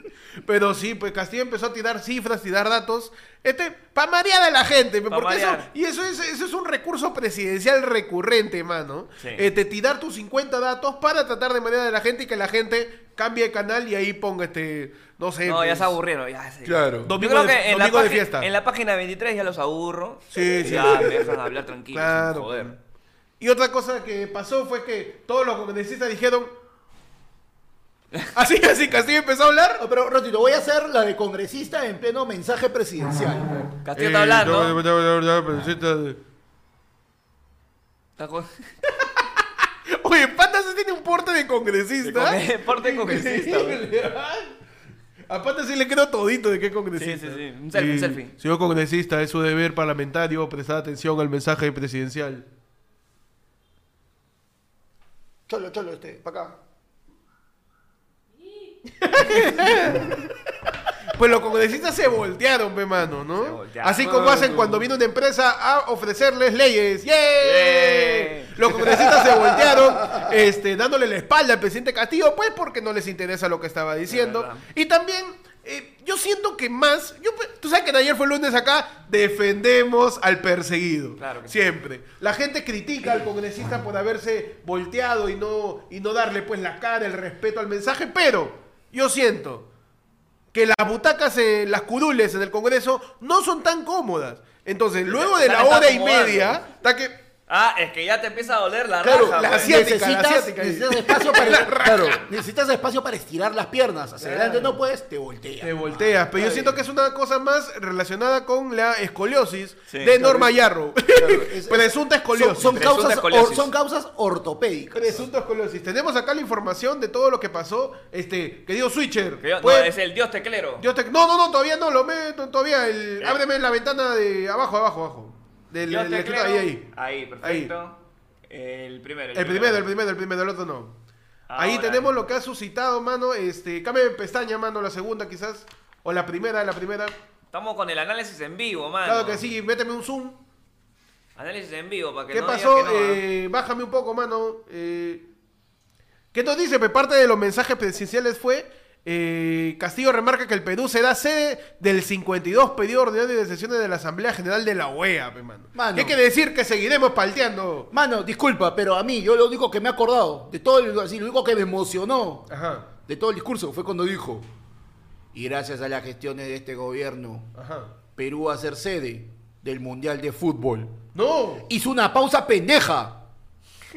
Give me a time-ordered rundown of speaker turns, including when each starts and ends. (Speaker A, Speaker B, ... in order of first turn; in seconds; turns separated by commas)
Speaker A: 0.5-15.9, Speaker B: 5.1-5.7, Speaker B: 9.2-9.5, Speaker B: 15.4-22.8, Speaker C: 16.6-17.1, Speaker A: 17.0-18.5, Speaker A: 20.3-22.8, Speaker A: 23.4-26.5, Speaker A: 28.3-29.8, Speaker C: 29.8-33.5, Speaker B: 33.9-34.8, Speaker A: 34.0-36.2, Speaker B: 38.2-38.6, Speaker A: 39.9-44.5, Speaker B: 42.0-43.8, Speaker A: 45.3-52.5, Speaker B: 47.0-48.3, Speaker C: 55.5-56.6, Speaker A: 59.0-60.2, Speaker A: 61.1-89.7, Speaker B: 63.4-64.3, Speaker C: 64.0-64.9, Speaker B: 67.4-68.6, Speaker C: 69.3-70.2, Speaker B: 74.1-74.7, Speaker B: 81.2-81.7, Speaker A: 90.5-97.2, Speaker B: 95.1-96.6, Speaker B: 97.5-99.8, Speaker C: 99.0-106.8, Speaker A: 99.2-102.2, Speaker A: 104.2-104.8, Speaker A: 105.6-112.8, Speaker C: 110.2-110.5, Speaker C: 111.1-115.3, Speaker B: 112.7-113.7, Speaker A: 114.9-120.0, Speaker B: 119.4-120.9, Speaker A: 120.8-126.9, Speaker B: 125.9-129.9, Speaker A: 127.4-127.7, Speaker A: 129.3-131.0, Speaker B: 131.5-132.1, Speaker A: 131.6-137.2, Speaker B: 137.5-139.4, Speaker A: 139.1-140.4, Speaker B: 141.4-143.2, Speaker A: 142.3-145.3, Speaker A: 146.3-157.9, Speaker C: 155.8-156.2, Speaker C: 157.9-162.5, Speaker A: 162.5-162.9, Speaker C: 163.1-164.5, Speaker C: 165.3-167.5, Speaker A: 167.6-167.9, Speaker C: 168.2-171.0, Speaker A: 171.2-171.7, Speaker C: 171.7-173.2